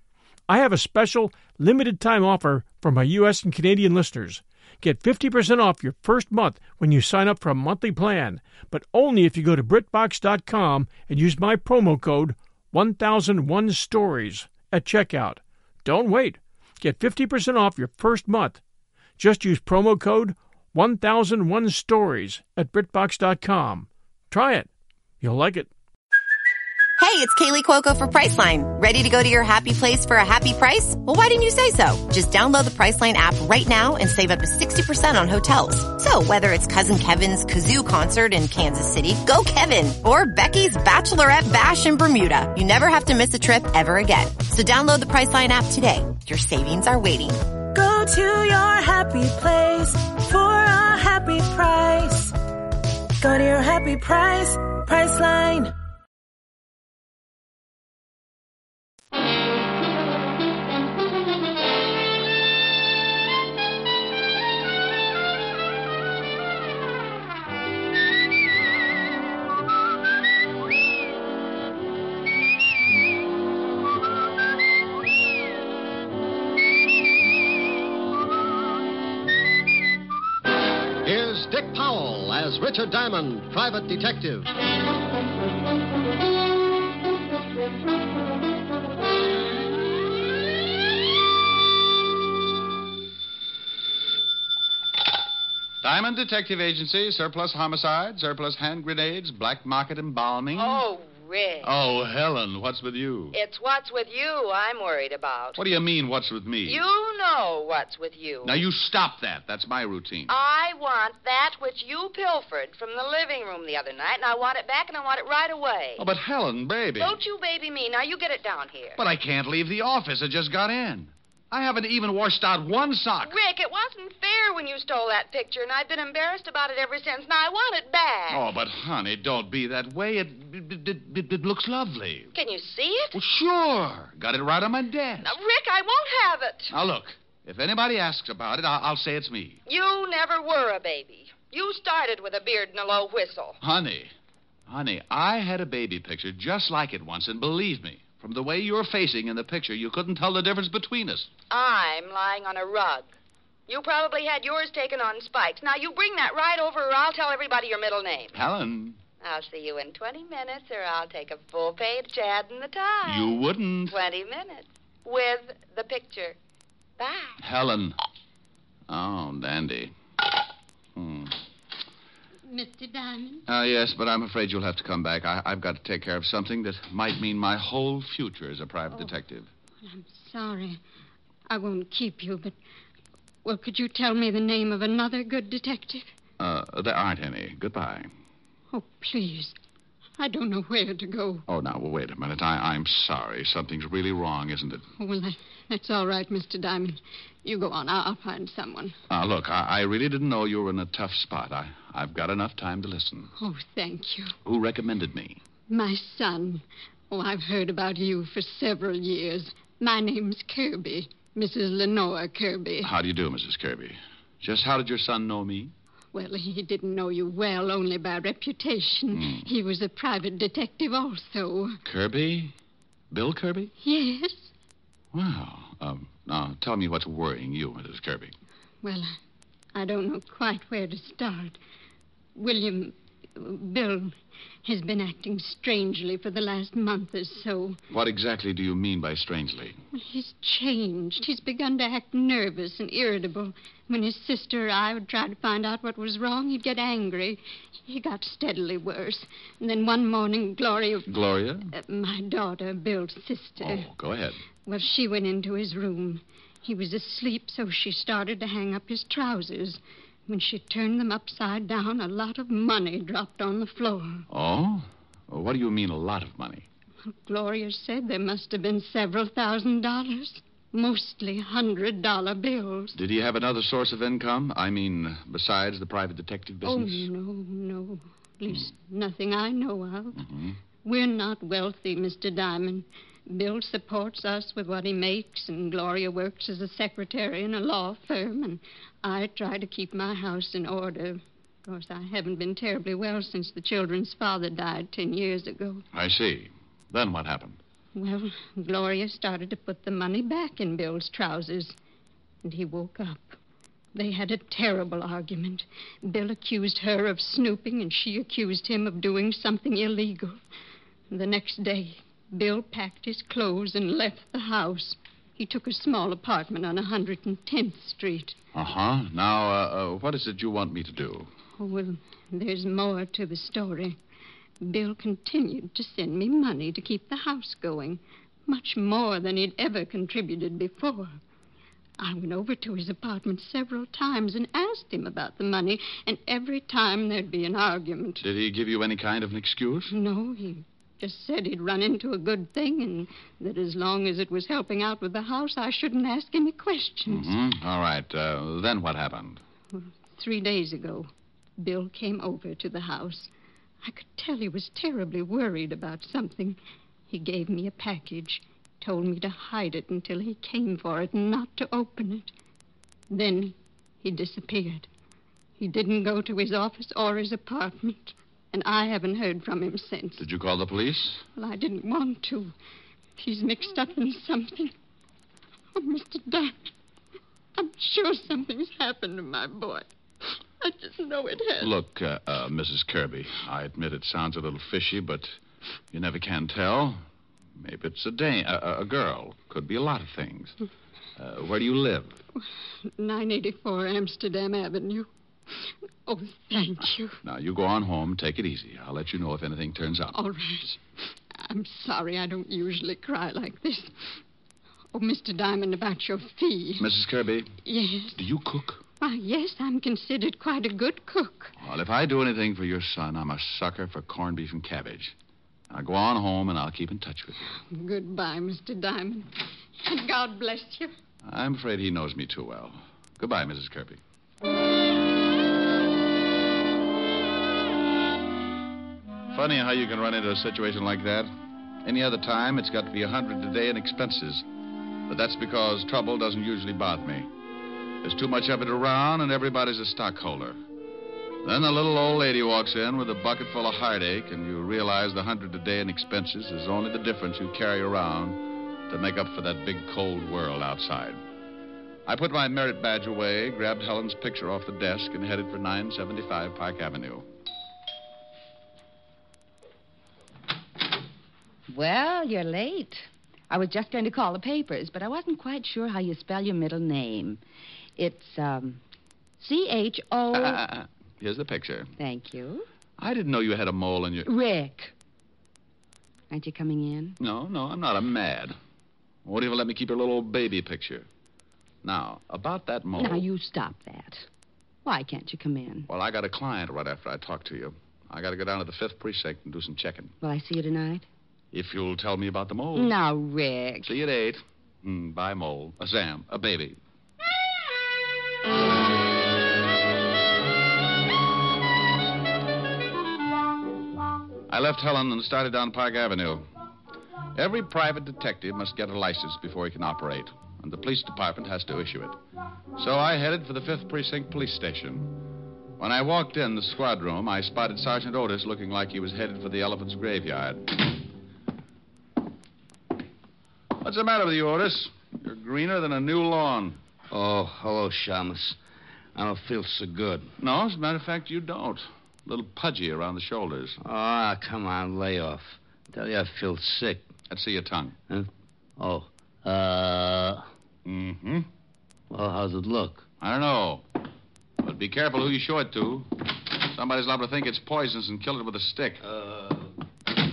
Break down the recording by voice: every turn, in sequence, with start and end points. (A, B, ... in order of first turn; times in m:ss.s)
0:00.5-0:18.6 A
0:19.2-0:24.7 A
0:25.2-0:25.7 A
0:27.0-0:47.4 B
0:47.7-0:52.4 C
0:53.2-0:55.7 C
1:21.0-1:24.5 D
1:35.8-1:40.8 E
1:40.5-1:41.7 F
1:41.6-1:43.4 E
1:43.3-1:45.6 F
1:45.6-1:46.8 E
1:46.6-1:48.6 F
1:48.4-1:50.3 E
1:50.3-1:56.1 F
1:56.0-1:57.2 E
1:57.0-1:59.0 F
1:59.0-2:03.4 E
2:03.2-2:08.4 F
2:08.3-2:12.3 E
2:12.3-2:13.2 F
2:13.1-2:15.3 E
2:15.2-2:16.7 F
2:16.7-2:19.6 E
2:19.7-2:23.6 F
2:23.6-2:24.1 E
2:24.7-2:31.3 E
2:31.5-2:33.1 F
2:33.7-2:38.4 F
2:38.3-2:39.0 E
2:39.2-2:46.4 F
2:43.0-2:44.0 E
2:47.0-2:47.4 F
2:47.4-2:48.0 E
2:48.9-2:49.9 E
2:51.0-2:51.4 E
2:52.5-2:53.4 G
2:53.5-2:59.5 E
2:59.8-3:00.8 G
3:01.5-3:02.6 G
3:03.4-3:06.2 G
3:06.4-3:08.1 E
3:08.7-3:09.6 G
3:10.2-3:11.4 G
3:11.5-3:14.8 E
3:15.0-3:19.0 G
3:19.1-3:23.3 E
3:23.4-3:24.4 G
3:24.4-3:25.4 E
3:25.7-3:32.9 G
3:32.8-3:35.7 E
3:36.1-3:41.8 G
3:39.1-3:39.5 E
3:41.8-3:42.5 E
3:43.1-3:43.7 E
3:43.8-3:44.5 G
3:45.1-3:48.4 E
3:48.8-3:49.2 G
3:49.8-3:51.6 G
3:52.4-3:57.8 G
3:57.9-3:59.8 E
4:00.0-4:11.1 G
4:11.1-4:11.7 E
4:11.7-4:13.9 G
4:13.6-4:14.4 E
4:14.7-4:24.2 G
4:24.3-4:26.7 E
4:27.1-4:33.0 G
4:32.9-4:37.1 E
4:36.6-4:40.2 G
4:40.2-4:40.6 E
4:40.8-4:55.8 G
4:55.9-4:57.6 E
4:58.0-5:01.8 G
5:02.4-5:03.4 G
5:04.0-5:10.4 G
5:11.1-5:18.4 G
5:18.5-5:21.3 E
5:21.6-5:24.0 G
5:24.6-5:31.2 G
5:32.0-5:38.2 G
5:38.2-5:39.9 E
5:39.9-5:47.3 G
5:47.1-5:49.4 E
5:50.1-5:53.3 G
5:53.8-5:56.6 G
5:57.1-6:02.3 G
6:03.1-6:04.9 G
6:05.6-6:10.3 G
6:10.2-6:11.2 E
6:11.4-6:12.5 G
6:13.2-6:14.7 G
6:15.8-6:16.6 G
6:17.6-6:19.9 G
6:20.6-6:21.7 G
6:21.6-6:25.4 E
6:25.9-6:27.0 E
6:27.6-6:30.6 E
6:31.2-6:32.2 E
6:33.0-6:35.1 G
6:36.1-6:37.2 G
6:37.2-6:40.2 E
6:40.1-6:40.8 G
6:41.4-6:44.2 G
6:44.9-6:46.9 G
6:46.8-6:47.5 E
6:47.6-6:48.2 G
6:48.2-6:48.8 E
6:49.0-6:51.5 G
6:51.6-6:55.2 E
6:55.7-6:57.4 E
6:57.7-6:59.3 G
6:59.8-7:00.9 G
7:01.2-7:04.0 E
7:09.3-7:11.3 E
7:11.8-7:14.4 E
7:15.1-7:17.3 E
7:18.0-7:20.6 E
7:21.4-7:31.2 E
7:32.1-7:37.3 E
7:41.7-7:47.4 H
7:48.0-7:48.8 H
7:49.4-7:50.6 H
7:50.3-7:51.9 E
7:52.0-7:52.6 H
7:53.0-7:54.3 E
7:54.3-7:54.9 H
7:56.3-7:57.1 H
7:57.2-7:58.6 E
7:59.2-8:01.1 E
8:01.8-8:03.3 E
8:03.0-8:04.3 H
8:04.8-8:05.9 H
8:05.8-8:10.2 E
8:10.2-8:11.0 H
8:11.5-8:13.0 E
8:12.8-8:14.0 H
8:13.8-8:16.8 E
8:24.5-8:26.5 E
8:27.4-8:32.2 E
8:32.8-8:35.2 E
8:35.8-8:40.6 E
8:43.8-8:46.8 E
8:47.1-8:48.6 I
8:49.2-8:50.3 I
8:50.4-8:53.8 E
8:53.8-8:57.1 I
8:57.3-8:58.0 E
8:58.1-9:00.5 I
9:00.8-9:01.5 E
9:02.1-9:03.1 I
9:03.2-9:03.8 E
9:04.6-9:06.1 E
9:06.7-9:09.0 E
9:09.0-9:09.7 I